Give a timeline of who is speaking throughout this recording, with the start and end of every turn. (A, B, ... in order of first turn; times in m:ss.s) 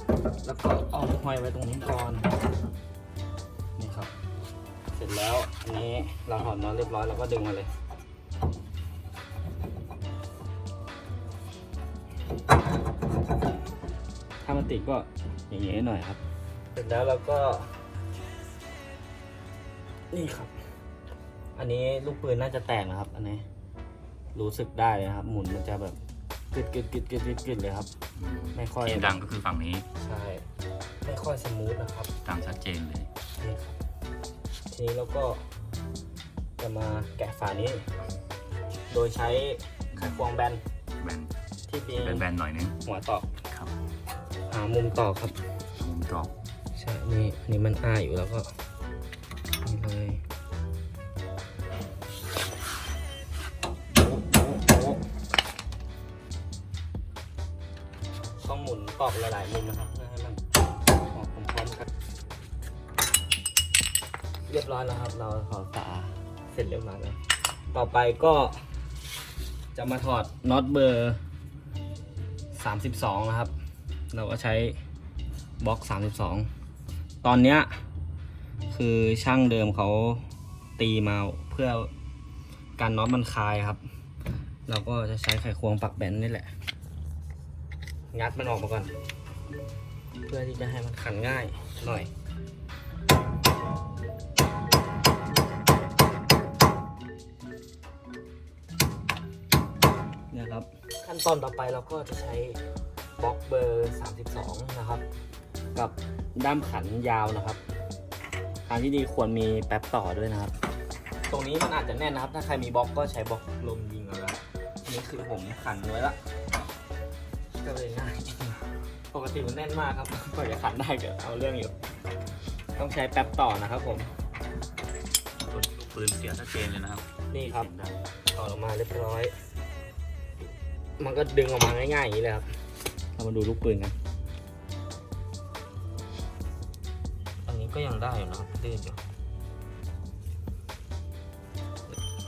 0:00.4-0:02.3 A
0:03.8-0:04.1 A
0:04.9-0:07.7 A
0:14.4-0:16.2 A
0:16.7-0:17.8 A
0:20.1-0:20.5 A
0:21.5-0:23.4 A
0:24.3-0:26.0 A
0:26.5-0:27.9 A
0:28.2-0:29.9 B
0:28.5-0:29.1 A
0:30.0-0:30.5 A
0:31.0-0:32.1 A
0:32.2-0:33.1 B
0:33.4-0:33.8 A
0:34.7-0:35.5 A
0:36.6-0:37.9 A
0:38.9-0:40.6 A
0:39.9-0:40.3 B
0:41.0-0:41.3 B
0:41.7-0:42.3 A
0:41.9-0:42.8 B
0:42.8-0:43.3 A
0:43.5-0:43.7 B
0:44.5-0:45.4 A
0:45.8-0:46.3 B
0:46.7-0:48.6 A
0:49.6-0:50.2 A
0:53.9-0:55.0 A
0:58.4-1:00.4 A
1:01.0-1:01.8 A
1:04.5-1:08.6 A
1:09.7-1:11.2 A
1:12.5-1:13.5 A
1:14.1-1:14.8 A
1:15.6-1:16.5 A
1:17.2-1:17.8 A
1:18.7-1:20.2 A
1:20.8-1:21.9 A
1:22.8-1:23.8 A
1:24.6-1:26.5 A
1:28.1-1:28.9 A
1:30.2-1:32.1 A
1:40.3-1:42.6 A
1:43.2-1:45.0 A
1:45.7-1:47.6 A
1:48.6-1:50.6 A
1:51.3-1:56.2 A
1:57.6-2:01.8 A
2:02.7-2:04.1 A
2:05.4-2:08.0 B
2:07.3-2:07.7 A
2:08.3-2:09.3 A
2:11.0-2:12.6 A
2:13.1-2:13.9 A
2:17.4-2:19.0 A